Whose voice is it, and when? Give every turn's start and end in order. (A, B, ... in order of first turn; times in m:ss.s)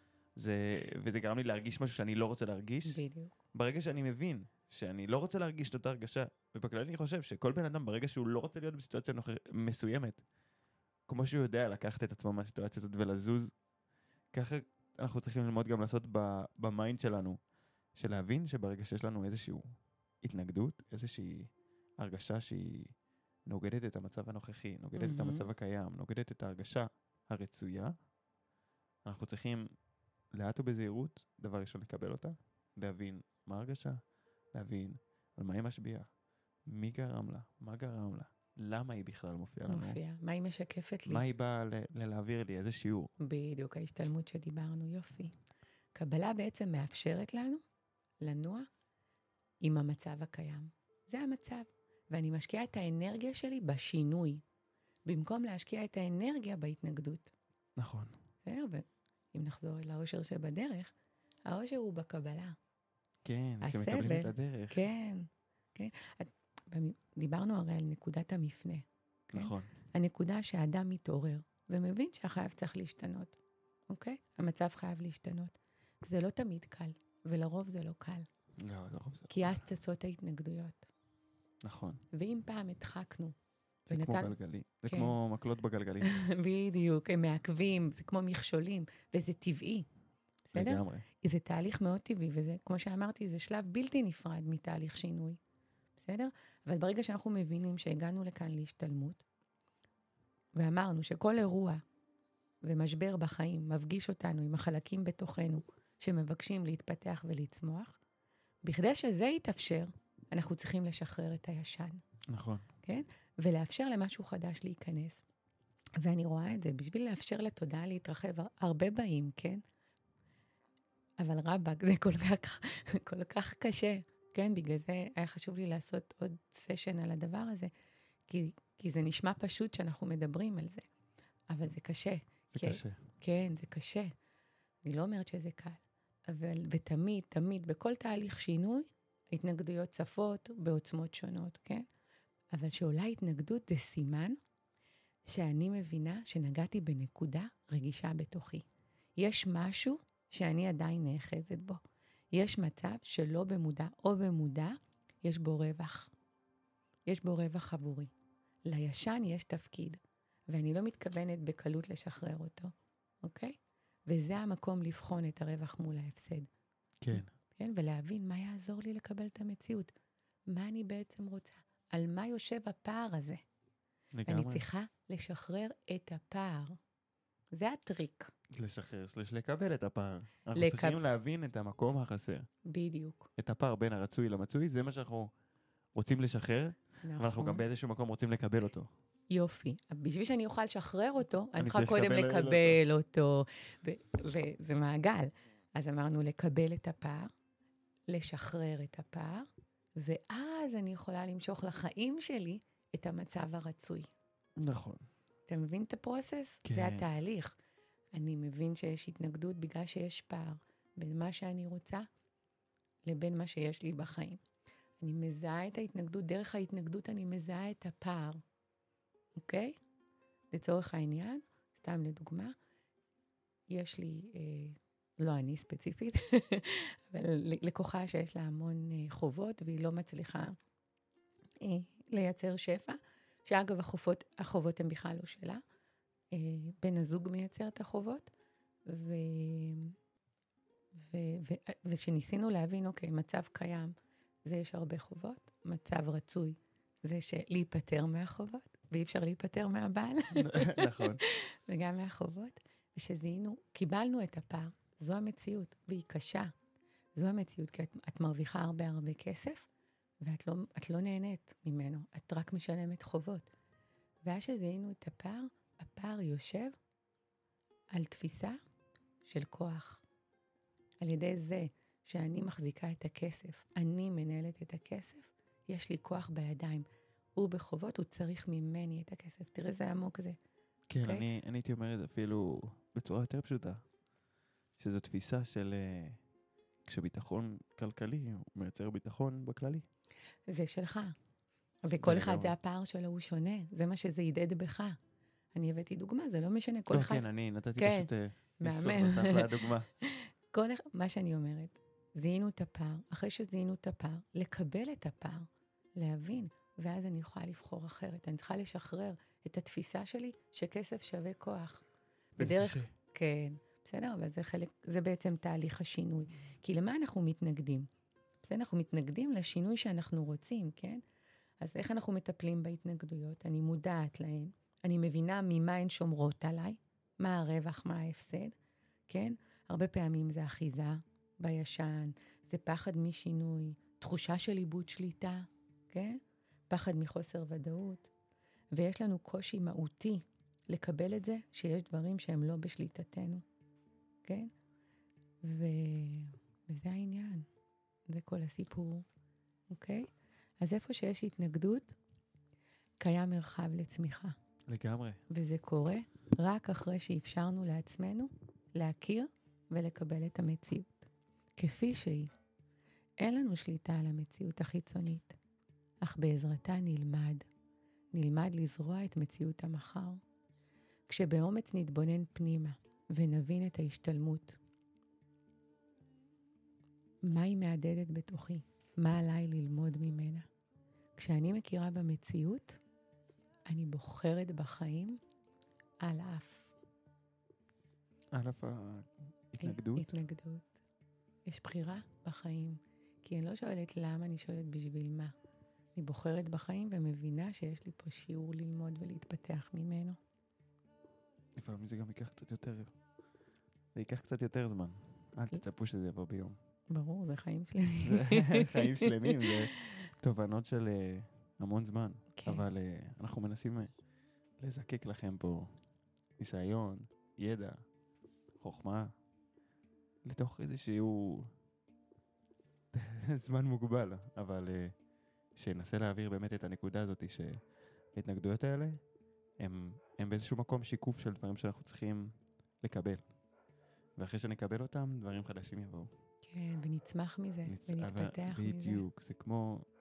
0:00.4-0:03.0 A
0:02.9-0:03.3 B
0:03.5-0:10.2 A
0:11.1-0:13.5 A
0:14.3-0:17.4 A
0:18.0-0:19.6 A
0:20.2-0:23.0 A
0:23.5-0:27.9 A
0:25.0-0:25.5 B
0:29.0-0:29.7 A
0:30.3-0:34.0 A
0:34.5-0:36.1 A
0:36.7-0:40.0 A
0:39.7-0:41.2 B
0:41.1-0:43.1 A
0:43.2-0:45.4 B
0:45.9-0:47.6 B
0:48.2-0:48.7 B
0:49.6-0:54.4 B
0:55.1-0:57.3 B
0:57.8-0:58.1 A
0:58.4-1:00.9 B
1:01.5-1:02.6 B
1:03.2-1:04.8 A
1:03.6-1:13.4 B
1:09.3-1:09.7 A
1:13.9-1:18.3 B
1:18.6-1:19.6 A
1:19.3-1:20.9 B
1:21.6-1:22.0 A
1:22.1-1:23.4 B
1:23.9-1:26.1 A
1:23.9-1:24.4 B
1:24.9-1:25.1 B
1:26.0-1:29.9 B
1:30.5-1:35.4 B
1:30.6-1:31.1 A
1:36.0-1:39.2 B
1:40.6-1:41.8 B
1:42.6-1:48.0 B
1:48.6-1:52.0 B
1:52.3-1:52.7 A
1:52.8-1:55.2 B
1:56.0-1:59.6 B
2:01.2-2:07.7 B
2:08.3-2:10.8 B
2:11.5-2:14.1 B
2:12.5-2:13.0 A
2:14.8-2:21.9 B
2:22.5-2:24.4 B
2:25.3-2:28.7 B
2:29.2-2:31.8 B
2:32.3-2:36.1 B
2:37.1-2:38.1 B
2:38.7-2:42.7 B
2:43.2-2:46.5 B
2:47.0-2:47.3 A
2:47.1-2:49.9 B
2:50.5-2:53.4 B
2:54.1-2:54.6 A
2:54.3-2:56.8 B
2:57.5-2:58.3 B
2:58.6-3:02.4 A
3:00.6-3:01.0 B
3:02.7-3:03.3 B
3:03.4-3:05.3 A
3:06.0-3:08.9 A
3:07.0-3:07.6 B
3:09.3-3:17.3 B
3:11.6-3:12.8 A
3:18.1-3:24.1 B
3:24.6-3:25.1 A
3:25.5-3:27.6 B
3:26.6-3:27.1 A
3:28.1-3:32.1 B
3:33.1-3:34.4 B
3:35.0-3:38.4 B
3:39.4-3:39.8 B
3:40.5-3:42.5 B
3:43.7-3:50.5 B
3:51.6-3:55.6 B
3:56.3-3:58.3 B
3:58.9-4:00.0 B
4:01.0-4:03.9 B
4:04.4-4:16.5 B
4:10.4-4:11.2 A
4:17.2-4:19.7 B
4:20.2-4:23.5 B
4:24.2-4:26.7 B
4:27.9-4:28.6 B
4:29.2-4:30.0 B
4:31.0-4:40.4 B
4:40.9-4:43.8 A
4:44.8-4:46.2 A
4:46.9-4:49.8 A
4:50.5-4:51.1 B
4:51.8-4:55.0 B
4:52.0-4:52.5 A
4:55.5-4:57.3 B
4:56.9-4:59.9 A
4:57.8-4:58.1 B
4:58.6-5:05.5 B
5:06.0-5:11.8 B
5:12.4-5:12.9 A
5:12.4-5:17.9 B
5:18.4-5:21.0 B
5:21.6-5:28.6 B
5:29.1-5:38.1 B
5:38.7-5:43.4 B
5:44.2-5:44.5 B
5:45.4-5:47.5 B
5:48.1-5:49.1 B
5:49.7-5:50.1 B
5:50.6-5:52.0 B
5:53.0-5:54.4 B
5:54.7-5:55.2 A
5:55.3-6:02.3 B
6:03.2-6:05.4 B
6:06.0-6:07.5 B
6:08.1-6:10.2 B
6:11.1-6:14.6 B
6:17.2-6:20.5 B
6:21.2-6:22.8 B
6:23.7-6:25.2 B
6:26.0-6:26.8 B
6:28.4-6:30.2 A
6:29.6-6:30.7 B
6:31.5-6:35.3 B
6:36.0-6:40.2 B
6:41.6-6:42.9 A
6:44.0-6:46.6 A
6:46.9-6:49.5 B
6:48.1-6:53.9 A
6:52.4-6:52.6 B
6:54.6-6:55.8 A
6:56.4-6:57.8 A
6:58.6-6:59.1 A
7:00.2-7:01.5 A
7:02.9-7:04.9 A
7:05.6-7:07.6 A
7:08.1-7:09.0 A
7:09.6-7:12.3 A
7:12.8-7:13.2 A
7:14.2-7:16.1 A
7:16.4-7:19.0 B
7:17.7-7:19.9 A